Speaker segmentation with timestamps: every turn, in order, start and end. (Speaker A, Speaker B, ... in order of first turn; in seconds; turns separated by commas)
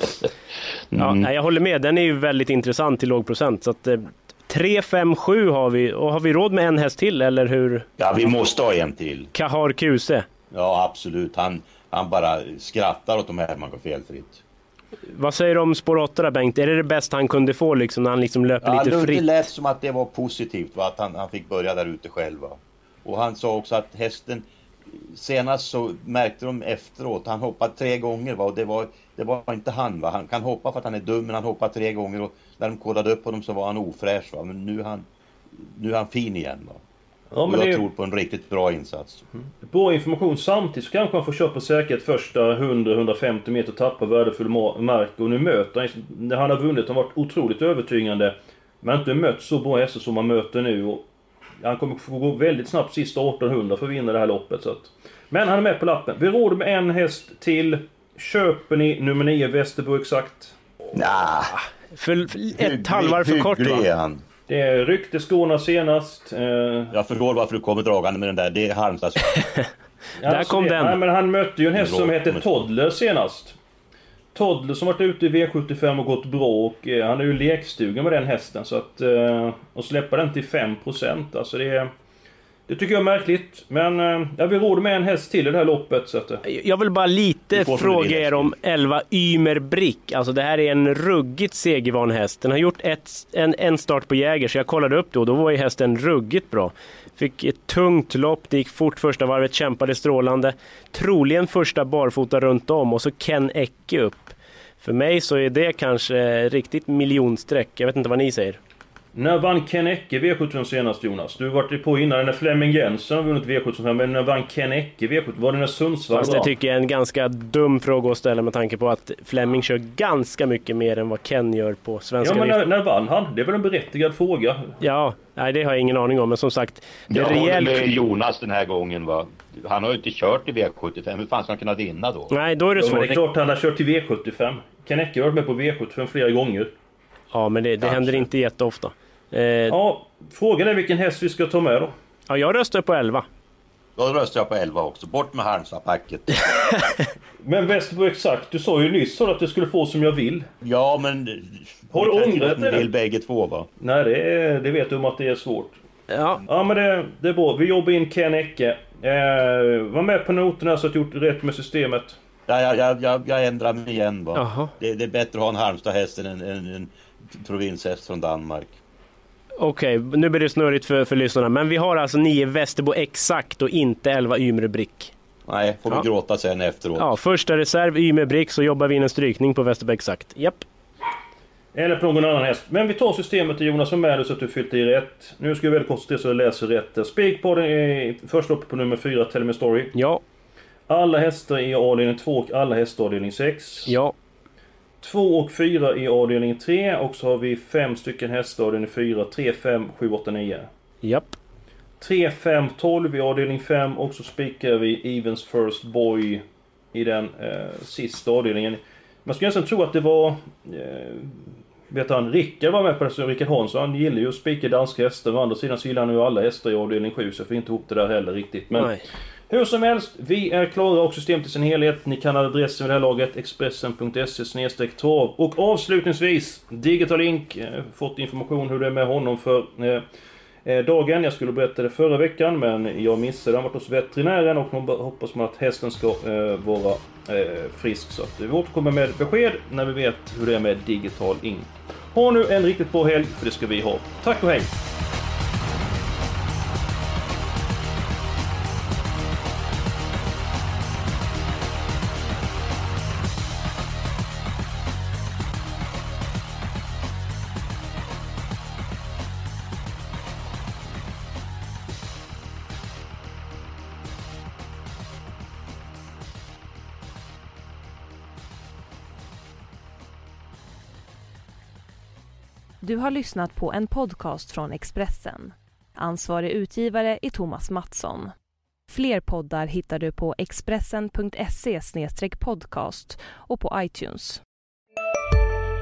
Speaker A: 0.9-1.3, Speaker B: 1.0-7.9, Speaker A: 8.0-9.3, Speaker B: 9.3-10.3, Speaker A: 10.5-14.4, Speaker B: 15.1-19.2, Speaker A: 18.6-36.8, Speaker C: 37.3-37.9, Speaker A: 37.5-39.2, Speaker C: 39.6-51.0, Speaker C: 51.6-60.5, Speaker A: 60.9-61.6, Speaker B: 61.9-63.9, Speaker A: 62.5-64.2, Speaker C: 64.5-66.9, Speaker A: 66.9-69.4, Speaker B: 69.4-69.7, Speaker C: 70.2-73.6, Speaker B: 70.2-71.0, Speaker A: 71.8-72.5, Speaker C: 74.3-81.9, Speaker C: 82.7-86.4, Speaker B: 86.5-108.6, Speaker A: 87.5-88.5, Speaker C: 109.2-116.5, Speaker B: 116.1-122.6, Speaker C: 122.2-124.8, Speaker B: 124.8-127.9, Speaker A: 127.1-132.3, Speaker B: 132.3-133.2, Speaker C: 132.8-136.7, Speaker B: 137.3-139.8, Speaker A: 137.8-138.2, Speaker C: 139.7-141.9, Speaker B: 142.3-143.3, Speaker A: 144.0-146.4, Speaker B: 146.7-147.1, Speaker C: 147.4-150.5, Speaker A: 150.6-153.7, Speaker C: 151.9-152.9, Speaker C: 153.8-155.8, Speaker B: 156.1-156.4, Speaker C: 156.5-162.2, Speaker A: 162.5-168.8, Speaker B: 164.3-164.7, Speaker B: 169.6-175.1, Speaker A: 175.5-177.2, Speaker B: 177.0-180.6, Speaker C: 181.7-189.9, Speaker B: 189.9-190.2, Speaker C: 190.9-193.9, Speaker B: 193.9-194.1, Speaker C: 195.0-200.7, Speaker B: 201.0-201.4, Speaker C: 202.0-218.9, Speaker B: 218.7-219.1, Speaker C: 219.5-230.1, Speaker C: 230.7-244.7, Speaker D: 272.8-278.3, Speaker D: 278.9-284.4